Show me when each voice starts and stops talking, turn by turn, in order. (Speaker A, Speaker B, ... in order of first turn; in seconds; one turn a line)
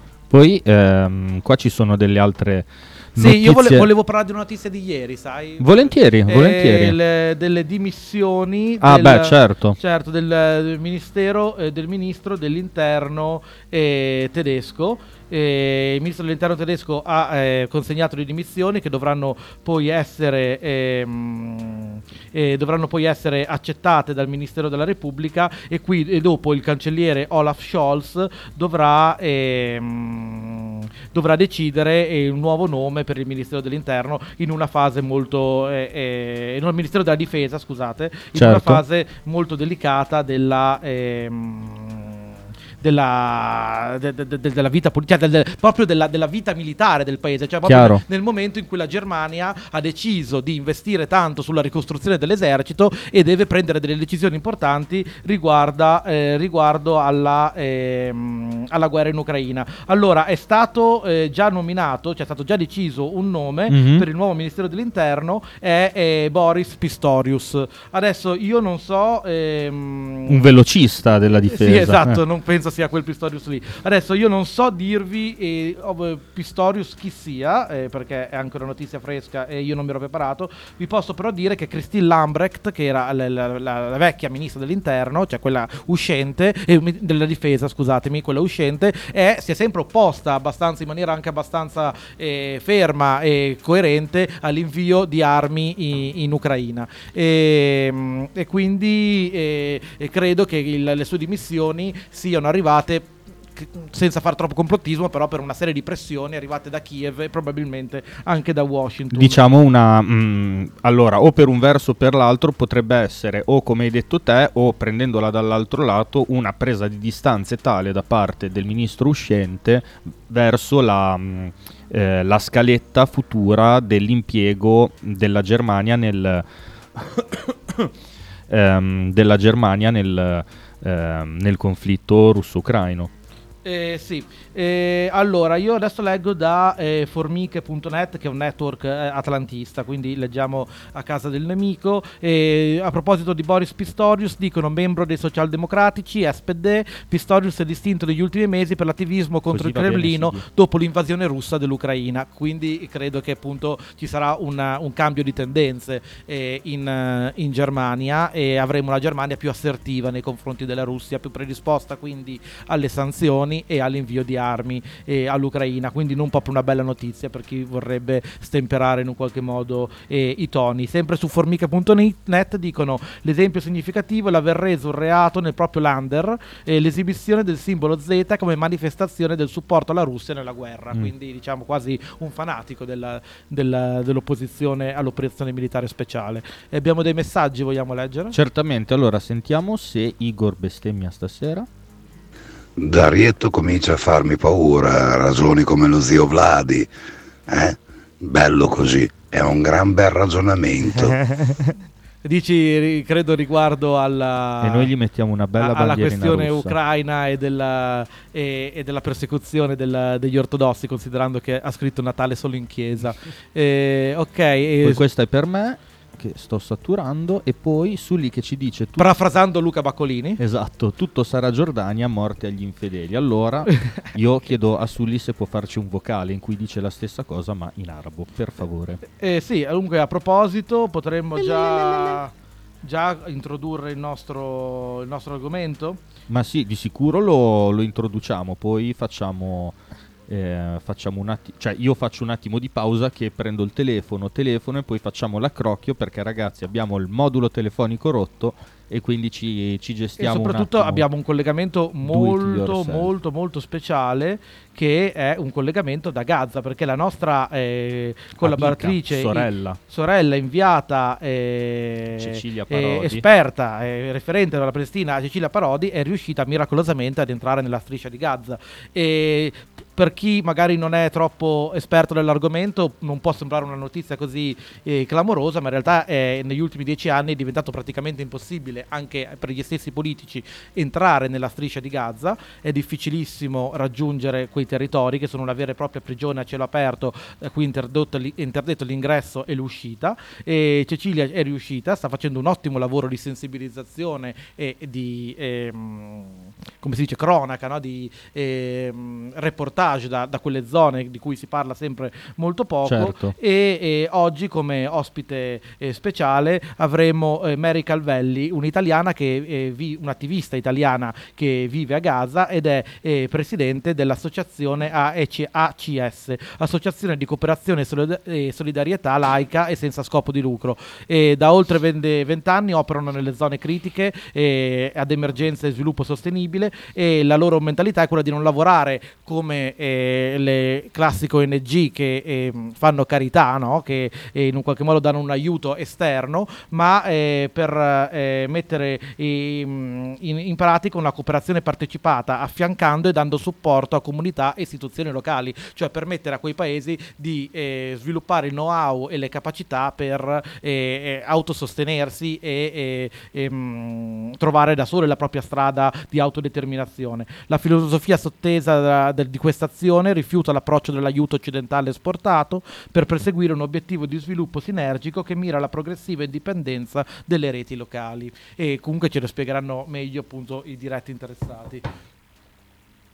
Speaker A: 0.3-3.9
Speaker B: 3.2-42.3
Speaker A: 5.6-7.0
Speaker A: 8.8-9.8
Speaker A: 38.3-38.8
Speaker B: 42.8-70.4
Speaker A: 47.6-48.0
Speaker A: 63.7-64.1
Speaker A: 70.3-72.2
Speaker B: 71.5-109.4
Speaker A: 109.1-127.9
Speaker A: 128.5-133.1
Speaker B: 133.6-188.4
Speaker A: 149.5-150.4
Speaker A: 188.3-191.7
Speaker C: 192.8-196.9
Speaker C: 197.5-201.2
Speaker B: 201.3-201.7
Speaker B: 202.2-204.9
Speaker A: 204.6-206.8
Speaker B: 205.6-215.0
Speaker A: 214.8-219.1
Speaker B: 219.0-220.4
Speaker A: 220.4-229.0
Speaker B: 223.7-224.1
Speaker B: 229.1-232.3
Speaker B: 232.8-236.0
Speaker A: 236.3-239.8
Speaker A: 240.3-251.0
Speaker B: 250.2-371.9
Speaker A: 252.0-253.1
Speaker A: 258.4-259.8
Speaker A: 262.2-263.2
Speaker A: 302.9-303.4